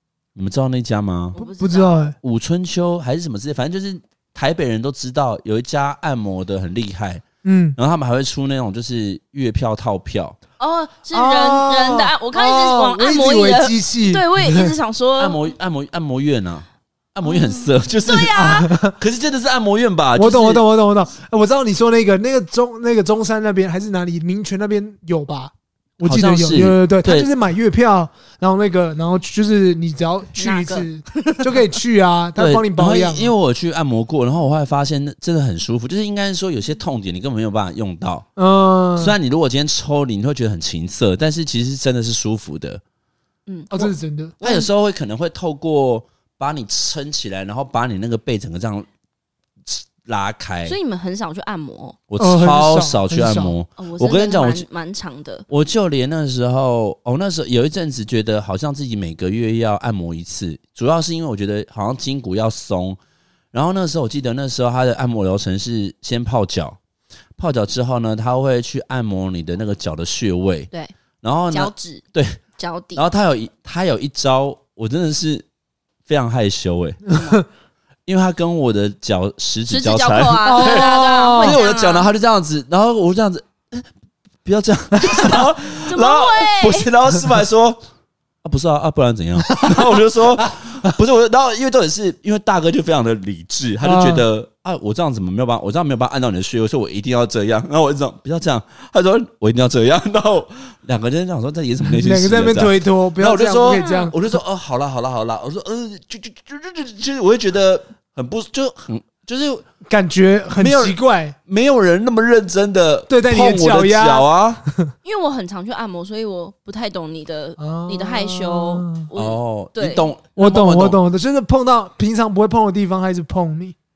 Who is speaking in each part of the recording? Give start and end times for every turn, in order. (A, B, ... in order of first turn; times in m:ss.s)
0:00.4-0:01.4 A
0:01.4-0:01.9 B
0:01.4-0:02.2 C
0:02.2-0:07.2 A
0:07.4-0:07.8 C
0:07.8-0:10.4 A
0:10.6-0:15.4 B
0:11.1-0:14.7 C
0:15.2-0:20.6 A
0:17.2-0:18.7 B
0:18.4-0:19.0 C
0:20.2-0:33.3 C
0:26.0-0:27.3 A
0:30.4-0:31.6 B
0:32.4-0:38.3 A
0:38.4-0:39.2 C
0:39.0-0:42.8 A
0:43.5-0:44.7 B
0:43.7-0:44.4 C
0:44.4-0:48.9 A
0:49.7-0:50.8 A
0:50.7-0:52.0 B
0:52.1-0:54.6 A
0:52.2-0:53.6 C
0:53.8-0:55.4 B
0:55.5-1:03.0 A
1:03.5-1:06.8 A
1:07.4-1:10.7 A
1:11.2-1:12.4 A
1:11.5-1:12.0 B
1:12.6-1:13.0 B
1:13.0-1:15.4 A
1:16.1-1:17.1 A
1:17.1-1:17.4 B
1:18.1-1:23.9 A
1:19.7-1:22.1 B
1:20.4-1:21.6 C
1:24.4-1:27.8 A
1:25.8-1:26.9 B
1:28.4-1:49.7 A
1:29.5-1:29.9 C
1:33.8-1:34.3 C
1:41.8-1:44.2 C
1:43.7-1:44.1 B
1:49.8-1:51.4 C
1:50.6-1:51.0 A
1:51.5-1:54.6 A
1:53.1-1:54.9 C
1:55.0-2:00.1 B
1:57.6-1:59.1 C
1:59.2-2:01.0 A
2:00.4-2:03.8 C